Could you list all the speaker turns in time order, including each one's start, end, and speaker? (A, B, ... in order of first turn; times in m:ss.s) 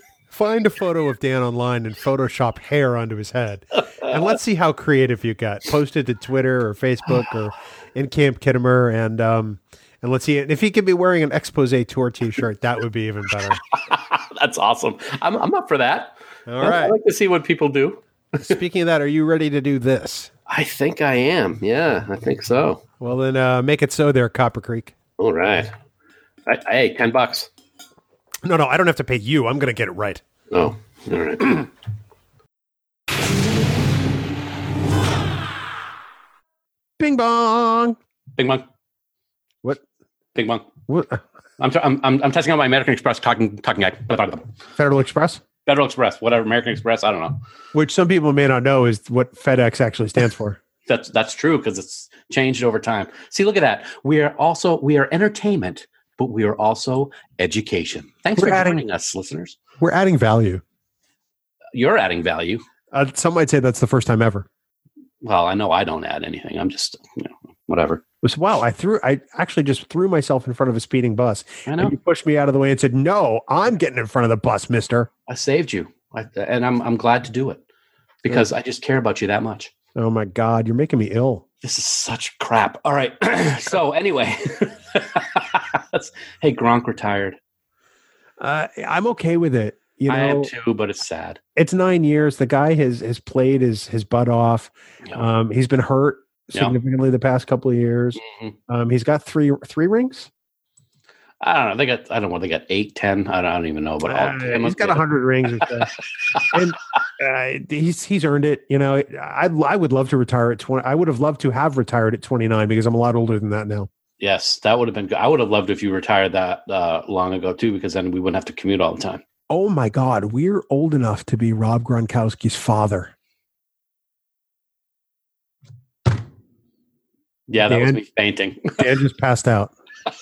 0:00.3-0:13.6 A
0:13.7-0:18.4 B
0:16.5-0:17.0 A
0:18.4-0:20.3 A
0:20.5-0:22.8 B
0:23.0-0:24.9 A
0:25.2-0:25.7 B
0:26.5-0:27.5 B
0:28.4-0:30.2 A
0:30.5-0:31.7 B
0:37.0-0:38.0 A
0:38.4-0:38.7 B
0:40.4-0:40.7 B
0:40.9-0:41.2 A
0:41.6-0:44.4 B
0:44.8-0:45.4 A
0:45.7-0:47.4 B
0:47.7-0:50.6 A
0:50.9-0:59.6 B
0:58.4-0:58.8 A
0:59.8-1:00.6 A
1:01.7-1:02.6 B
1:02.9-1:04.5 A
1:05.2-1:08.0 B
1:08.2-1:15.1 A
1:11.7-1:12.0 B
1:15.3-1:17.6 B
1:18.2-1:19.7 B
1:20.0-1:21.4 A
1:21.6-1:27.4 B
1:28.4-1:30.5 A
1:30.1-1:31.4 B
1:31.6-1:40.3 A
1:38.2-1:38.5 B
1:41.4-1:45.0 B
1:44.0-1:45.9 A
1:46.2-1:46.6 B
1:46.5-1:53.9 A
1:54.2-1:59.2 B
1:59.5-2:03.1 A
2:07.5-2:08.8 B
2:07.7-2:08.0 A
2:08.8-2:09.7 A